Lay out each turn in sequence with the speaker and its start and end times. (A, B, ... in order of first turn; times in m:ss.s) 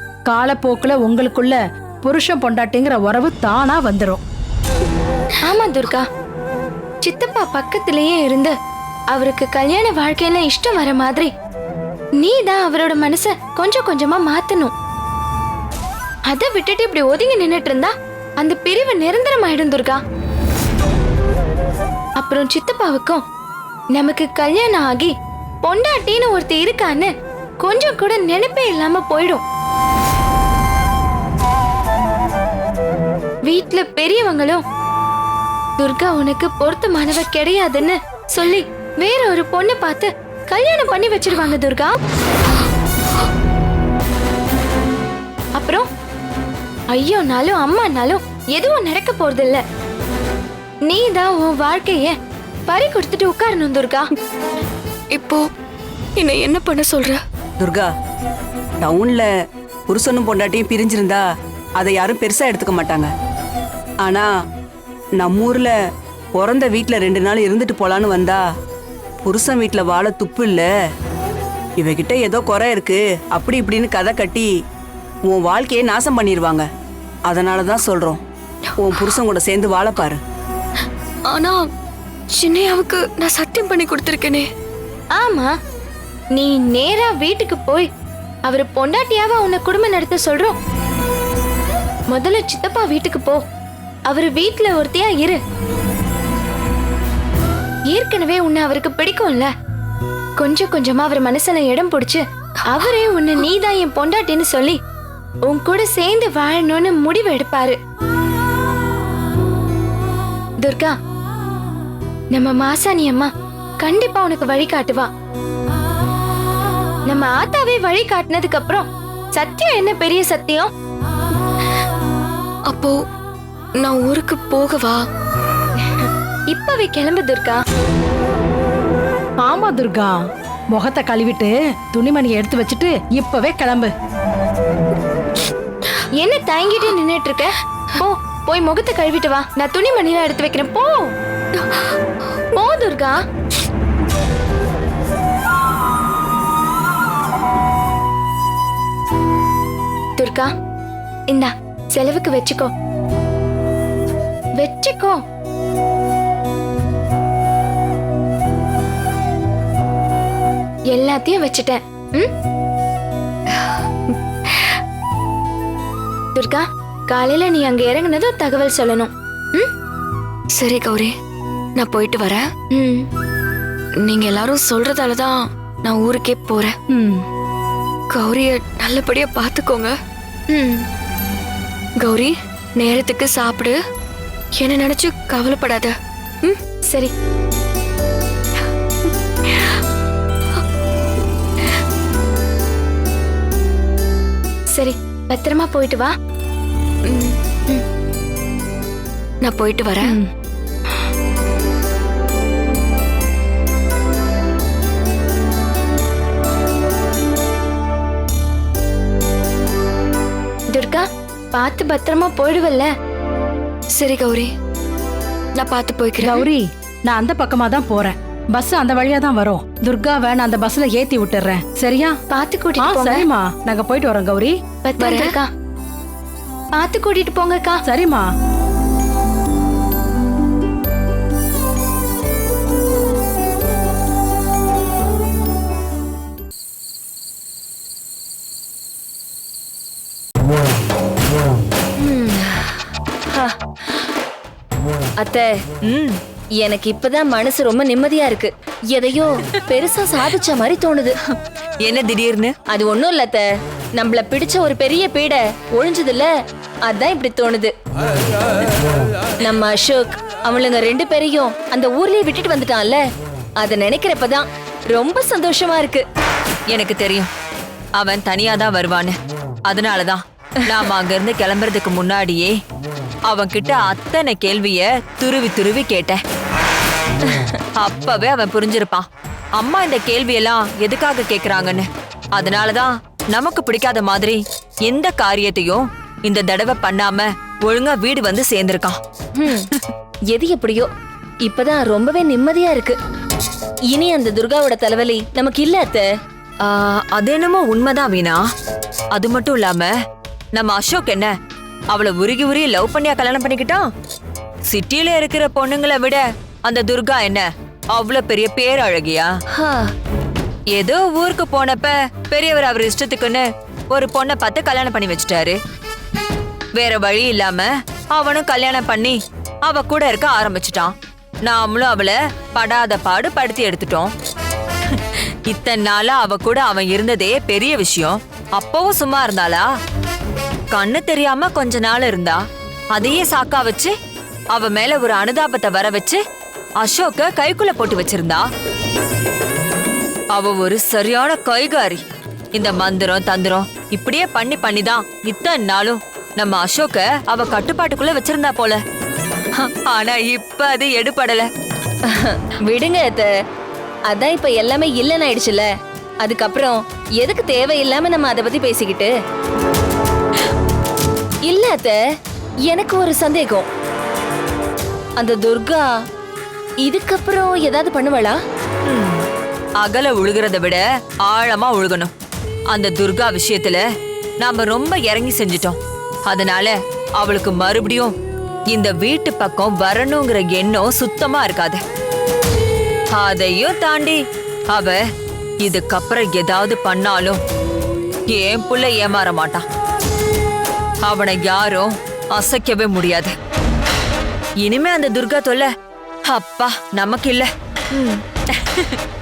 0:00.3-0:04.2 A
0:05.4-0:06.0 B
0:07.0-0:08.5 B
0:09.1-0:11.3 B
0:12.2-0:14.7 B
0:16.3-0:20.0 B
0:22.2-0:23.2 B
0:23.9-0:25.1 B
0:25.6-0:27.1 B
0:27.6-0:29.4 B
0:33.5-0:34.6 B
0:35.8-0:41.9 B
0:45.6-0:45.8 B
0:46.9-0:49.6 B
0:50.9-0:52.1 B
0:52.7-0:54.0 B
0:55.1-0:55.4 C
0:56.2-0:57.2 C
0:57.6-0:57.9 D
0:58.8-0:59.2 D
0:59.9-1:01.2 D
1:01.8-1:03.1 D
1:05.2-1:05.7 D
1:06.4-1:08.4 D
1:09.2-1:10.6 D
1:11.8-1:14.5 D
1:15.3-1:16.6 D
1:17.3-1:18.2 D
1:18.8-1:20.2 D
1:21.3-1:21.6 C
1:22.4-1:24.4 C
1:25.2-1:25.5 B
1:26.3-1:27.9 B
1:28.5-1:30.5 B
1:32.1-1:33.4 B
1:34.1-1:35.4 B
1:37.9-1:39.5 B
1:40.4-1:44.8 B
1:45.5-1:47.8 B
1:50.6-1:50.9 B
1:52.3-1:53.3 B
1:53.8-1:55.1 B
1:57.1-2:00.7 B
2:03.8-2:05.0 C
2:05.8-2:07.6 B
2:09.4-2:10.1 A
2:10.7-2:13.9 A
2:16.2-2:21.1 B
2:22.5-2:23.2 B
2:30.2-2:30.5 B
2:31.3-2:32.7 B
2:34.6-2:35.2 B
2:40.9-2:42.3 B
2:44.5-2:44.8 C
2:46.3-2:49.7 B
2:50.6-2:51.1 C
2:51.8-2:52.4 C
2:52.7-2:53.0 B
2:54.0-2:56.7 C
2:56.9-2:57.2 A
2:58.1-2:59.9 C
3:00.5-3:00.8 B
3:02.0-3:03.7 C
3:04.6-3:06.6 C
3:09.4-3:09.8 C
3:14.7-3:16.1 B
3:17.1-3:17.4 C
3:19.4-3:20.1 C
3:30.7-3:32.9 B
3:34.0-3:34.5 C
3:35.6-3:36.5 C
3:36.2-3:42.1 A
3:42.3-3:43.2 B
3:42.8-3:44.5 A
3:44.8-3:45.5 B
3:45.0-3:45.3 C
3:46.7-3:47.8 B
3:47.8-3:48.2 A
4:02.0-4:02.4 E
4:03.3-4:03.6 E
4:05.2-4:05.5 E
4:05.9-4:06.2 F
4:06.6-4:11.1 E
4:11.8-4:12.5 F
4:12.7-4:16.3 E
4:16.8-4:17.7 E
4:19.4-4:23.0 E
4:23.6-4:26.0 E
4:26.7-4:27.3 F
4:28.0-4:29.1 F
4:29.7-4:32.5 F
4:33.3-4:36.2 F
4:37.8-4:39.0 F
4:39.6-4:49.0 F
4:49.4-4:49.7 E
4:50.3-4:50.9 E
4:51.4-4:53.0 E
4:53.9-4:56.1 E
4:56.6-4:58.4 F
4:59.1-4:59.9 F
5:00.5-5:01.3 F
5:01.9-5:03.8 F
5:04.7-5:09.3 F
5:09.6-5:09.8 E
5:10.7-5:15.6 F
5:16.8-5:20.9 F
5:21.4-5:24.1 F
5:25.5-5:29.6 F
5:30.7-5:32.4 F
5:32.9-5:33.9 F
5:34.5-5:36.2 F
5:36.8-5:38.4 F
5:40.3-5:42.0 F
5:42.5-5:48.8 F
5:49.6-5:51.5 F
5:52.1-5:53.3 E
5:54.1-5:55.7 E
5:56.2-5:59.1 E
6:01.4-6:02.0 E
6:02.6-6:03.7 E
6:05.2-6:05.9 E
6:06.8-6:08.4 E
6:08.9-6:09.2 F
6:09.8-6:12.1 F
6:12.7-6:13.8 F
6:14.4-6:18.1 F
6:18.7-6:21.8 F
6:23.2-6:25.0 F
6:25.6-6:27.4 F
6:28.3-6:29.6 F
6:31.0-6:33.3 F
6:34.6-6:35.7 F
6:36.3-6:38.2 F